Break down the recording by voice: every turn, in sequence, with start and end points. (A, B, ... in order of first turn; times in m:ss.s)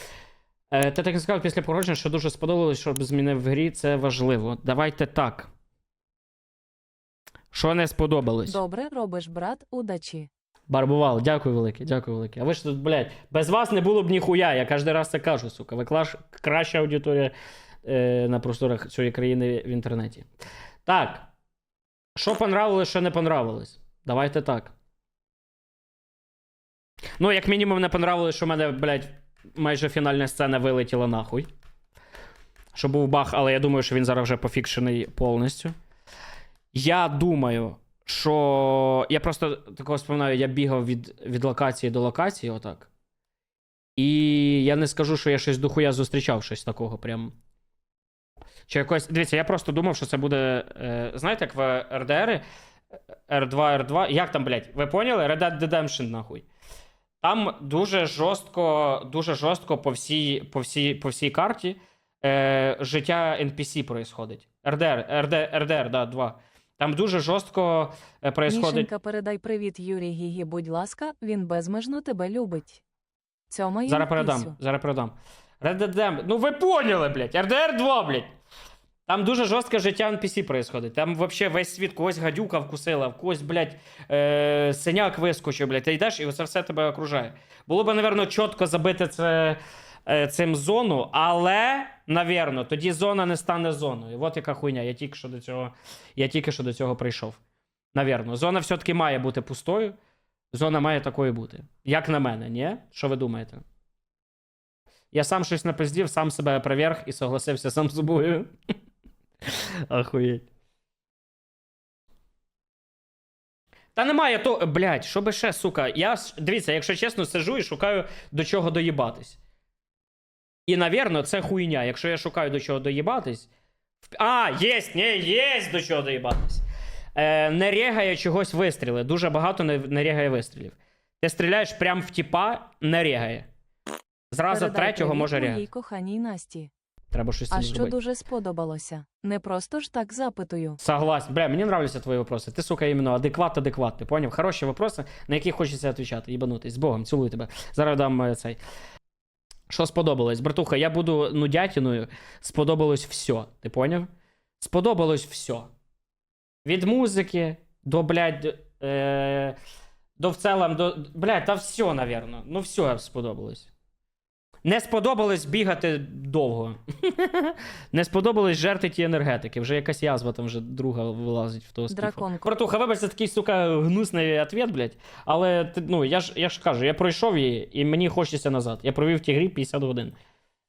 0:00.7-0:05.5 A
0:07.5-0:08.6 A
0:08.4-0:10.3 B
0:10.7-0:17.3 A
0:17.8-0:20.2 A
0:20.8-0:21.3 A
0:22.2-0:24.7 A
0:27.2-0:31.5 A
0:32.7-0:35.7 A
0:36.7-0:42.9 A
0:44.0-0:47.3 A
0:48.7-0:52.4 A
0:53.3-0:56.4 A
0:57.2-1:08.9 A
1:08.5-1:12.8 B
1:13.5-1:14.6 B
1:13.8-1:18.3 A
1:19.0-1:37.4 A
1:37.9-1:40.0 A
1:40.5-1:43.6 A
1:45.1-1:48.5 A
1:49.5-1:50.5 A
1:53.9-1:59.4 A
2:00.7-2:03.5 A
2:04.1-2:13.5 A
2:14.3-2:15.6 A
2:14.5-2:16.7 B
2:17.1-2:17.9 A
2:17.5-2:20.8 B
2:20.8-2:28.6 A
2:29.7-2:34.1 A
2:34.6-2:35.7 A
2:36.6-2:39.6 A
2:40.2-2:43.7 A
2:44.6-3:00.2 A
2:51.9-2:52.5 B